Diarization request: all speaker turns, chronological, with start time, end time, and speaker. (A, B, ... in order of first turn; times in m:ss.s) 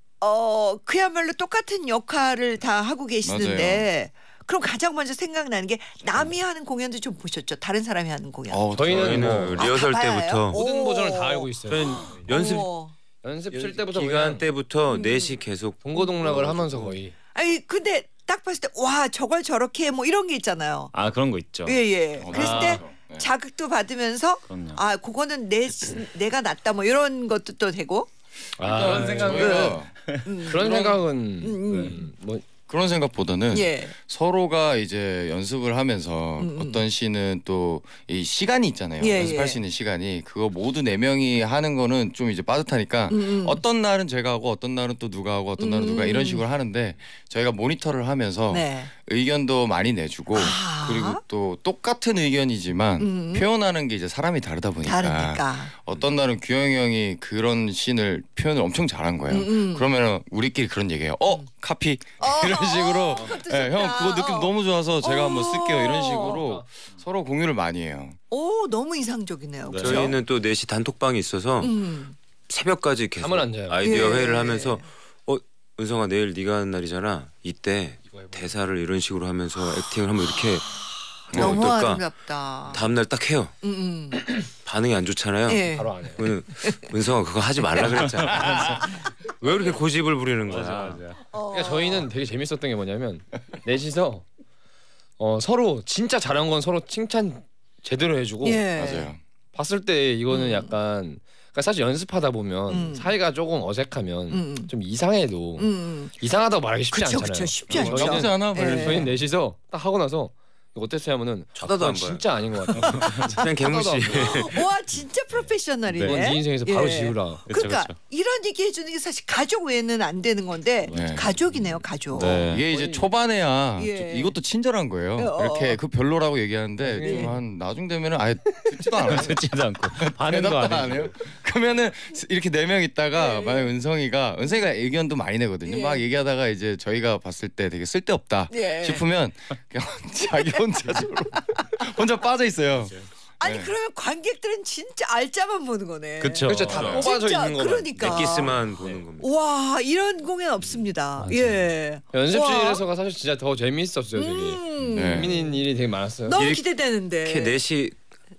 0:00.2-0:08.6 A
0:03.2-0:03.9 B
0:08.5-0:09.6 B
0:08.7-0:09.6 C
0:08.9-0:10.6 D
0:09.6-0:12.9 A
0:10.5-0:12.7 C
0:11.7-0:12.6 D
0:13.2-0:14.4 C
0:13.5-0:15.8 D
0:14.9-0:15.4 A
0:15.8-0:17.1 C
0:16.2-0:17.0 B
0:17.3-0:20.9 A
0:20.9-0:21.8 E
0:21.6-0:28.1 A
0:22.2-0:23.3 B
0:22.3-0:22.6 C
0:22.5-0:22.8 E
0:24.5-0:24.8 E
0:28.6-0:29.8 C
0:28.6-0:30.0 B
0:28.7-0:30.2 E
0:29.3-0:32.0 A
0:30.4-0:32.4 C
0:30.6-0:30.9 B
0:32.7-1:08.2 B
0:33.5-0:33.9 A
0:36.4-0:36.8 A
0:39.0-0:39.6 A
0:43.1-0:43.6 A
0:45.6-0:46.4 A
0:48.5-0:48.9 A
0:50.3-0:51.2 A
0:53.0-0:53.4 A
0:54.8-0:55.7 A
0:59.3-0:59.9 A
1:02.2-1:06.4 A
1:06.2-1:06.6 C
1:08.3-1:10.2 A
1:09.6-1:10.1 E
1:09.7-1:11.8 D
1:11.6-1:12.2 A
1:12.5-1:20.7 D
1:13.2-1:13.8 C
1:13.8-1:14.9 A
1:18.1-1:18.5 C
1:20.4-1:22.8 A
1:21.3-1:22.0 D
1:21.3-1:21.6 B
1:22.7-1:23.5 D
1:23.6-1:24.3 A
1:24.6-1:31.0 D
1:25.5-1:26.1 A
1:25.7-1:26.3 C
1:26.6-1:26.9 A
1:30.5-1:31.2 E
1:31.3-1:32.1 A
1:31.5-1:34.2 C
1:35.2-1:38.6 C
1:38.4-1:39.1 A
1:38.8-1:39.2 B
1:39.5-1:54.4 C
1:40.3-1:40.7 A
1:42.7-1:43.2 A
1:44.3-1:44.7 A
1:45.6-1:46.1 A
1:46.9-1:49.1 A
1:47.7-1:49.1 B
1:51.6-1:52.3 D
1:52.7-1:53.4 A
1:52.9-1:54.6 D
1:54.1-2:02.4 A
1:55.9-1:57.4 C
1:57.5-1:58.0 E
2:00.9-2:01.2 E
2:00.9-2:01.3 B
2:02.2-2:02.6 E
2:02.2-2:09.4 B
2:02.2-2:03.1 C
2:03.8-2:04.3 A
2:05.2-2:05.8 A
2:06.8-2:07.4 C
2:07.0-2:07.3 A
2:09.0-2:11.1 E
2:10.0-2:23.7 B
2:13.2-2:13.7 A
2:15.6-2:16.0 A
2:18.5-2:19.0 A
2:23.4-2:28.6 A
2:26.2-2:27.0 E
2:26.4-2:28.3 C
2:28.0-2:29.3 D
2:29.2-2:32.8 A
2:31.2-2:31.7 E
2:32.1-2:36.5 C
2:34.2-2:35.6 A
2:34.9-2:35.3 B
2:36.2-2:37.6 A
2:36.3-2:36.6 D
2:37.2-2:38.0 D